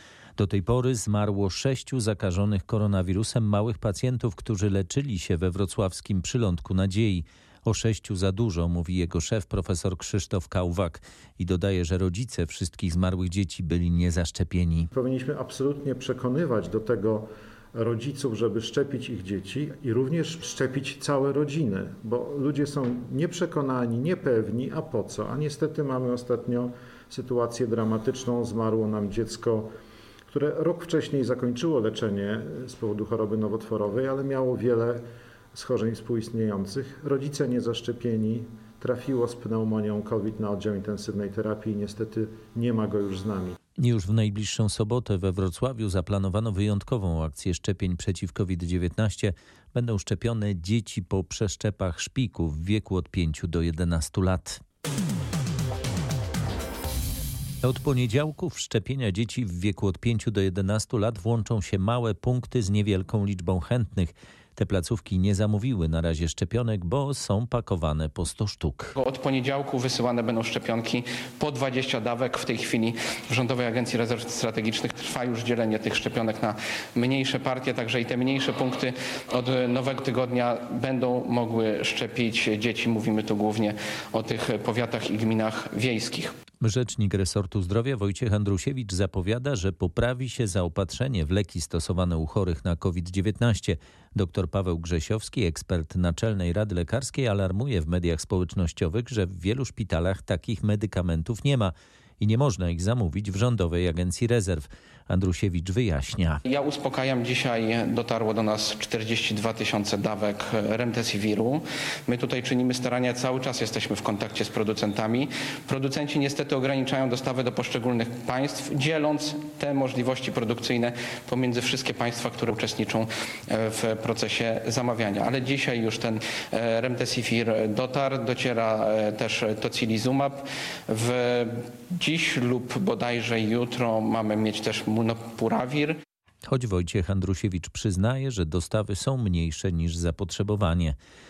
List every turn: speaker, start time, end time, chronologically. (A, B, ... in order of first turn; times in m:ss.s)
0:00.4-0:14.9 A
0:14.9-0:29.7 B
0:30.3-0:35.0 B
0:35.5-0:43.6 B
0:43.8-0:54.6 A
0:57.6-1:08.9 A
1:09.0-1:26.3 C
1:26.6-1:46.4 A
1:46.5-2:16.0 C
2:16.4-2:21.0 A